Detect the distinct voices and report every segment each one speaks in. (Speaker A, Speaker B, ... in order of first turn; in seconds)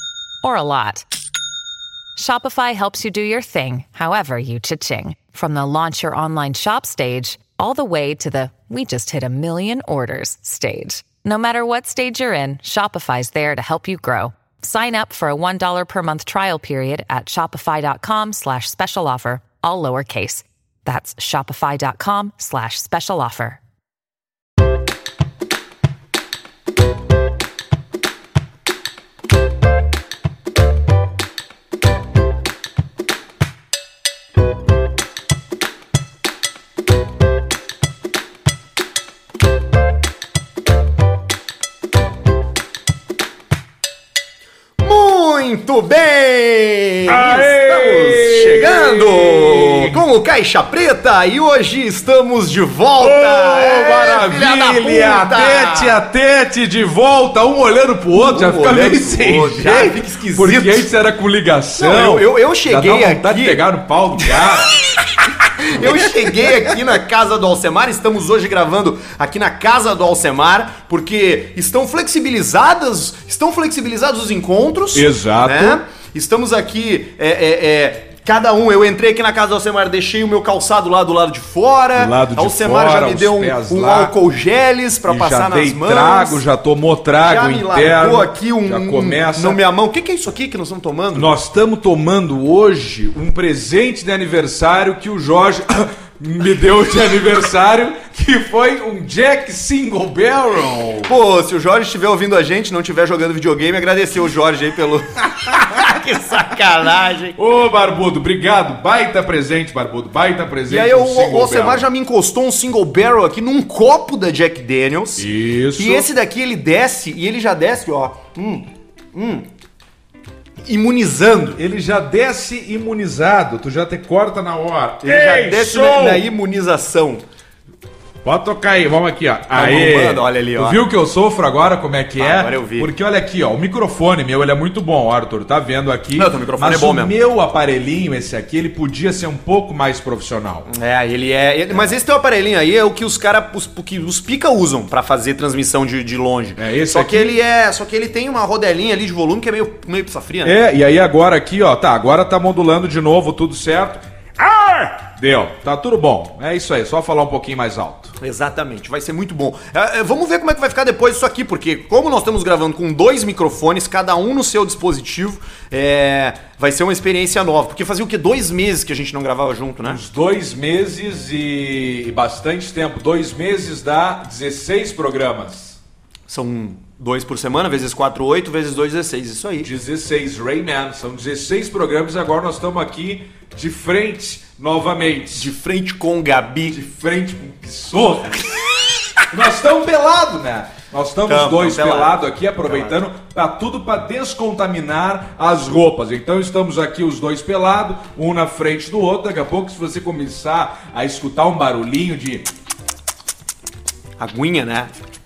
Speaker A: 0.4-1.1, 2.1-23.6
Speaker B: 44.8-56.0, 58.1-60.9, 61.8-63.6, 65.6-86.4, 87.2-91.3, 101.0-107.4, 110.7-119.5, 120.6-121.6, 125.0-127.2, 129.5-130.8, 132.2-132.9, 136.1-137.2, 140.7-150.6, 158.2-170.0, 176.3-179.7, 185.3-186.8, 191.3-192.9, 204.2-205.0
Speaker C: 47.1-50.0, 53.0-64.7, 65.7-66.8, 74.9-75.8, 81.9-84.1, 85.1-89.6, 91.1-101.1, 107.3-111.8, 115.2-116.1, 121.6-126.2, 128.2-140.7, 146.6-147.4, 150.4-158.2, 169.8-175.8, 179.6-185.5, 186.7-188.7, 189.3-202.5